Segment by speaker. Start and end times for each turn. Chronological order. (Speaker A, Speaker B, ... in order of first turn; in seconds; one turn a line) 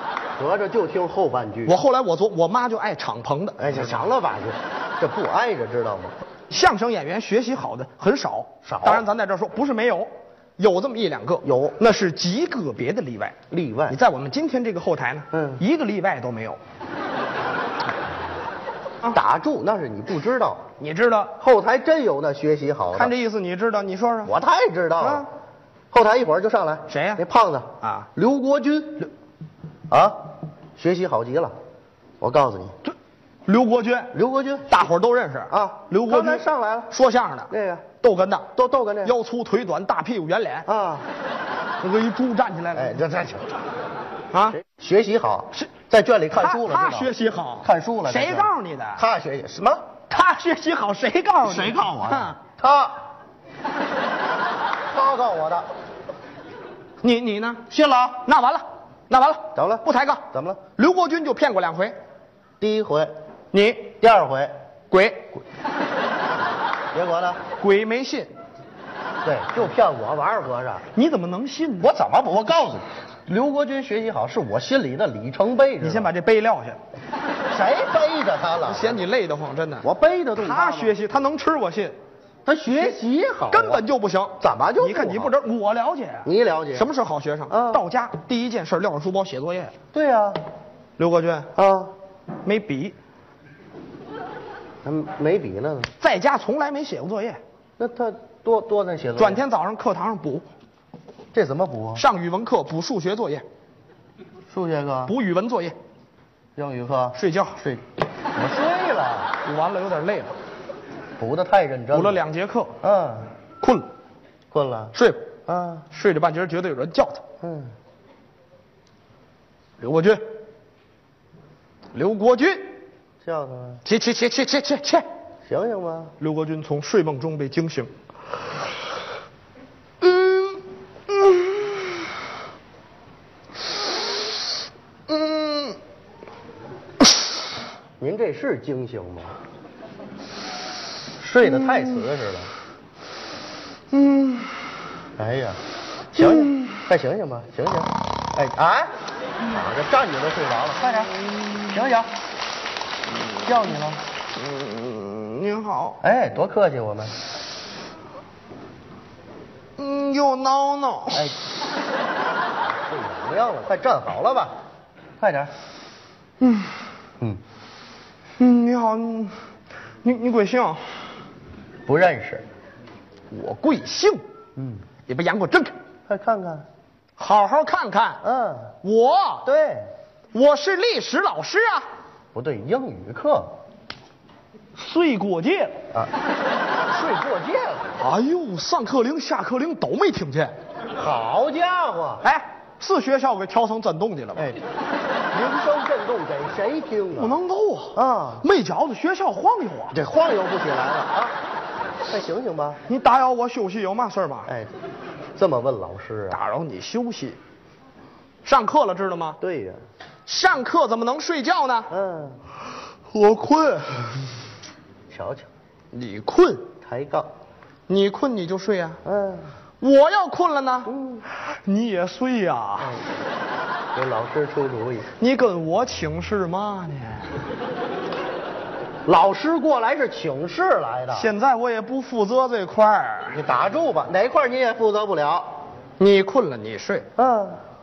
Speaker A: 0.4-1.8
Speaker B: 1.7-4.1
Speaker A: 3.6-6.2
Speaker B: 6.5-13.4
Speaker A: 8.6-9.1
Speaker A: 11.4-11.8
Speaker A: 13.5-14.0
Speaker B: 13.9-16.6
Speaker A: 15.3-15.6
Speaker A: 19.1-20.7
Speaker B: 20.8-21.3
Speaker A: 21.4-23.1
Speaker B: 22.9-24.3
Speaker A: 24.2-25.3
Speaker B: 25.0-25.3
Speaker A: 25.9-29.1
Speaker B: 26.9-27.2
Speaker B: 27.8-28.1
Speaker A: 29.9-30.2
Speaker A: 30.8-31.5
Speaker A: 32.2-32.8
Speaker B: 33.5-34.1
Speaker A: 34.1-34.9
Speaker B: 34.7-38.5
Speaker A: 35.5-36.9
Speaker A: 37.5-37.9
Speaker A: 38.5-39.2
Speaker B: 39.0-40.7
Speaker A: 40.7-41.1
Speaker B: 41.8-43.0
Speaker A: 42.7-43.5
Speaker B: 44.3-44.6
Speaker A: 44.6-49.9
Speaker B: 46.3-49.0
Speaker B: 50.1-52.4
Speaker A: 51.4-53.0
Speaker A: 54.9-55.7
Speaker B: 57.0-57.6
Speaker A: 57.7-58.2
Speaker B: 58.2-60.2
Speaker A: 59.5-60.6
Speaker B: 60.8-62.0
Speaker A: 62.6-63.1
Speaker B: 63.5-64.0
Speaker A: 64.0-64.5
Speaker B: 64.9-65.4
Speaker A: 66.9-67.4
Speaker B: 67.6-68.3
Speaker A: 69.2-70.8
Speaker B: 70.9-71.9
Speaker A: 71.8-76.1
Speaker B: 75.8-76.8
Speaker A: 77.5-79.0
Speaker B: 78.7-82.0
Speaker A: 79.8-81.0
Speaker A: 82.5-83.8
Speaker B: 82.7-83.0
Speaker B: 83.5-89.7
Speaker A: 84.4-85.3
Speaker A: 86.2-86.9
Speaker A: 87.5-87.8
Speaker A: 89.9-90.4
Speaker B: 91.0-91.5
Speaker A: 91.6-91.9
Speaker B: 92.5-93.0
Speaker A: 94.8-95.9
Speaker B: 96.0-97.4
Speaker A: 97.8-99.4
Speaker B: 99.2-100.5
Speaker A: 101.3-102.0
Speaker B: 102.0-103.5
Speaker A: 104.5-105.1
Speaker B: 105.1-105.8
Speaker A: 106.6-107.8
Speaker B: 107.2-107.6
Speaker A: 108.3-109.3
Speaker B: 109.4-110.3
Speaker A: 111.2-112.2
Speaker B: 111.9-112.8
Speaker A: 112.8-113.3
Speaker B: 113.6-113.9
Speaker A: 114.5-115.0
Speaker B: 114.9-115.3
Speaker A: 115.5-115.9
Speaker B: 115.9-117.2
Speaker A: 117.4-117.7
Speaker B: 119.8-120.2
Speaker B: 121.9-122.8
Speaker A: 123.2-123.8
Speaker B: 123.8-125.1
Speaker A: 125.5-126.1
Speaker B: 126.2-127.9
Speaker B: 130.0-131.9
Speaker B: 135.1-135.8
Speaker A: 138.0-139.4
Speaker A: 141.2-142.5
Speaker B: 143.9-144.5
Speaker A: 145.2-145.6
Speaker A: 146.1-148.9
Speaker B: 146.3-146.7
Speaker A: 149.5-151.2
Speaker B: 151.4-151.8
Speaker A: 151.7-152.1
Speaker A: 153.4-154.0
Speaker B: 154.4-156.0
Speaker A: 156.0-157.2
Speaker B: 159.8-161.3
Speaker A: 162.7-164.5
Speaker A: 165.2-165.5
Speaker B: 166.4-166.8
Speaker B: 168.4-169.3
Speaker B: 170.0-170.8
Speaker A: 171.9-172.4
Speaker B: 173.3-174.2
Speaker A: 174.6-174.8
Speaker B: 175.1-175.7
Speaker A: 176.1-176.7
Speaker B: 177.2-178.2
Speaker A: 178.2-178.7
Speaker B: 178.8-179.5
Speaker A: 179.4-179.9
Speaker B: 180.3-181.9
Speaker A: 182.3-183.5
Speaker B: 184.8-185.8
Speaker A: 186.9-187.9
Speaker B: 188.0-190.5
Speaker A: 191.0-192.2
Speaker B: 192.2-194.5
Speaker A: 195.3-197.4
Speaker B: 197.2-200.0
Speaker A: 197.9-198.4
Speaker A: 199.9-201.4
Speaker A: 202.1-202.8
Speaker B: 202.9-204.5
Speaker A: 204.5-204.7
Speaker A: 205.4-206.4
Speaker B: 206.3-207.4
Speaker B: 208.4-209.4
Speaker A: 209.4-209.8
Speaker B: 210.3-211.9
Speaker A: 211.9-212.4
Speaker B: 213.1-214.3
Speaker A: 215.1-215.5
Speaker B: 215.9-216.7
Speaker A: 216.8-217.3
Speaker B: 217.9-219.0
Speaker A: 219.1-219.5
Speaker B: 219.8-223.0
Speaker A: 220.9-221.2
Speaker A: 222.8-223.1
Speaker A: 223.9-225.1
Speaker B: 225.2-227.3
Speaker A: 229.1-231.3
Speaker B: 231.1-233.4
Speaker A: 233.3-235.5
Speaker B: 236.0-237.1
Speaker A: 237.2-237.6